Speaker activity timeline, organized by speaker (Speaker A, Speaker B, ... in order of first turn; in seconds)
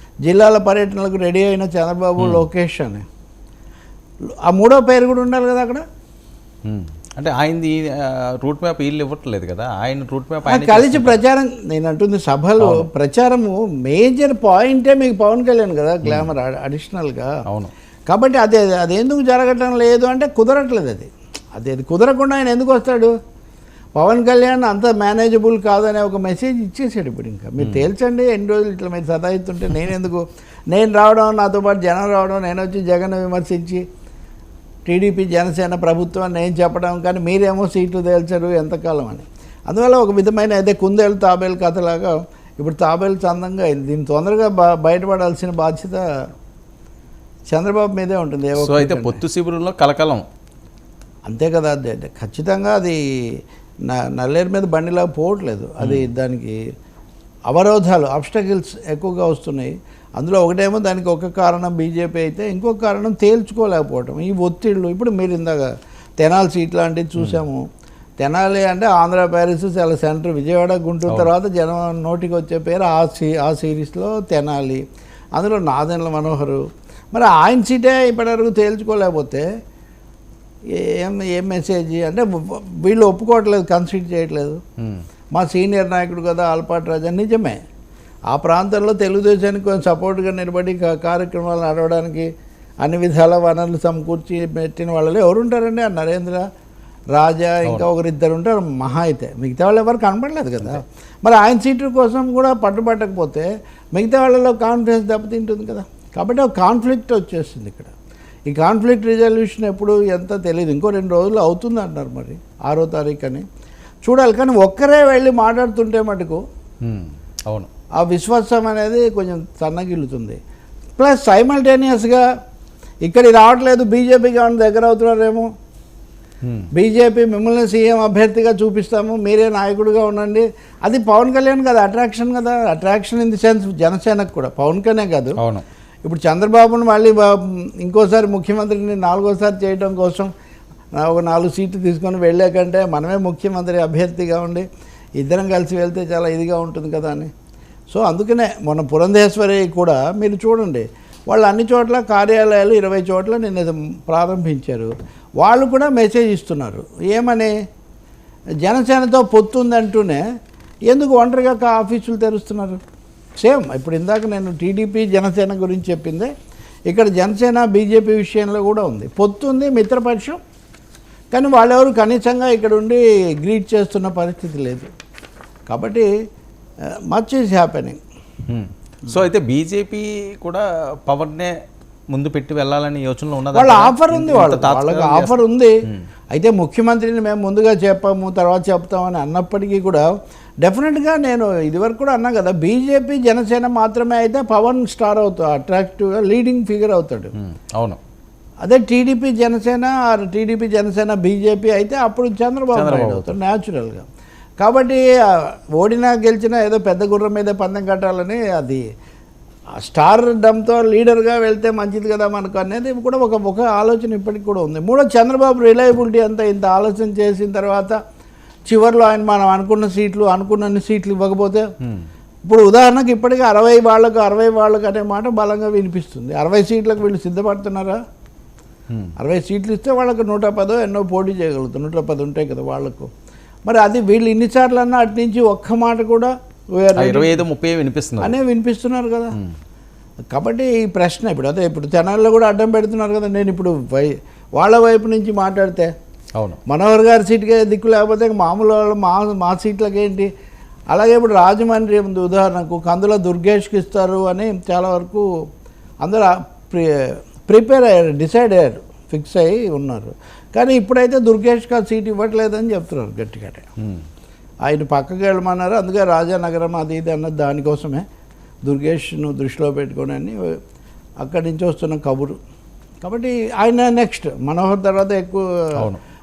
Speaker A: 0.2-3.0, 4.5-5.8, 10.4-17.3, 18.1-23.1, 24.0-33.8, 34.9-46.0, 47.5-49.2, 51.2-56.6, 57.5-67.6, 68.2-74.8, 75.3-76.6, 77.1-79.5, 80.7-84.6, 85.3-87.6, 88.3-92.3, 92.8-96.5, 97.1-107.9, 108.5-113.4, 114.0-116.4, 118.0-120.4, 121.0-122.2, 123.0-125.5, 126.7-135.4, 136.1-140.3, 140.9-144.6, 145.2-147.3, 147.9-157.5, 158.6-160.2, 160.9-162.8, 163.4-166.3, 166.9-170.4, 171.3-174.9, 175.7-176.1, 177.1-178.0, 183.5-185.8, 186.3-190.1, 190.6-197.3, 198.6-204.1, 204.6-208.8, 209.8-218.0, 218.7-221.7, 222.5-228.0, 229.2-233.1, 233.7-237.4, 238.2-239.4, 240.3-245.9, 246.7-250.3, 250.9-255.3, 256.0-263.7, 264.6-268.0, 268.6-270.4, 271.2-272.4, 273.0-275.8
Speaker B: 2.2-2.5, 6.6-11.2, 12.6-12.9, 16.0-16.3, 17.5-17.7, 27.6-27.9, 48.6-50.3, 55.8-56.1, 84.8-85.0, 116.8-117.7, 126.4-126.7, 135.4-135.6, 178.5-181.5, 182.1-186.1, 197.4-198.0, 202.7-203.3, 221.8-222.1, 236.9-238.3, 263.8-264.0